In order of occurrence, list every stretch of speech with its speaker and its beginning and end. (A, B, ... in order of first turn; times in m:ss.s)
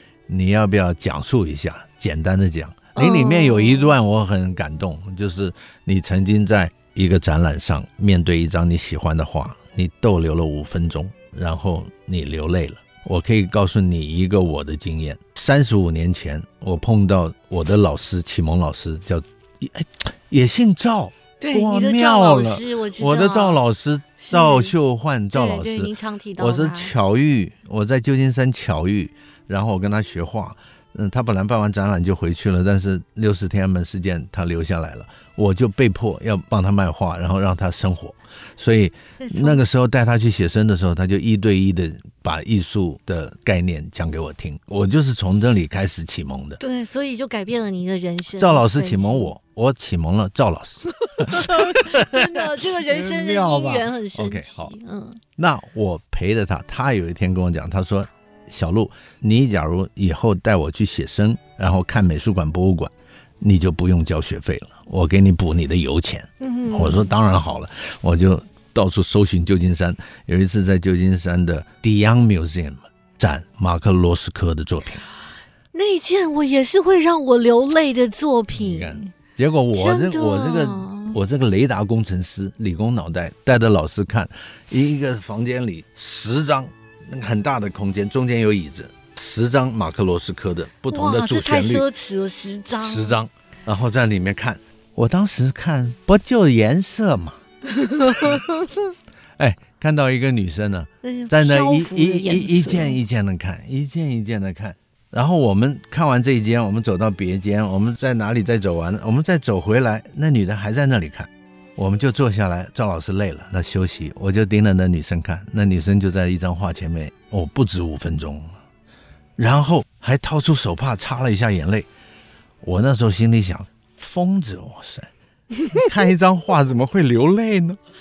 0:00.3-0:46.6 A
0:03.0-0:04.0 B
0:21.4-0:23.6 B
0:24.2-0:24.7 B
0:25.3-0:26.9 B
0:39.2-0:39.6 B
0:46.6-0:49.3 B
0:48.4-0:54.7 A
0:51.1-0:55.2 B
0:55.4-1:15.0 A
1:06.4-1:07.1 B
1:15.7-1:19.1 B
1:18.5-1:31.9 A
1:19.7-1:21.2 B
1:30.9-1:33.2 B
1:32.8-1:37.4 A
1:37.7-1:38.8 B
1:39.4-1:58.5 A
1:41.0-1:43.0 B
1:59.4-2:01.9 A
2:02.6-2:05.1 A
2:05.7-2:07.8 A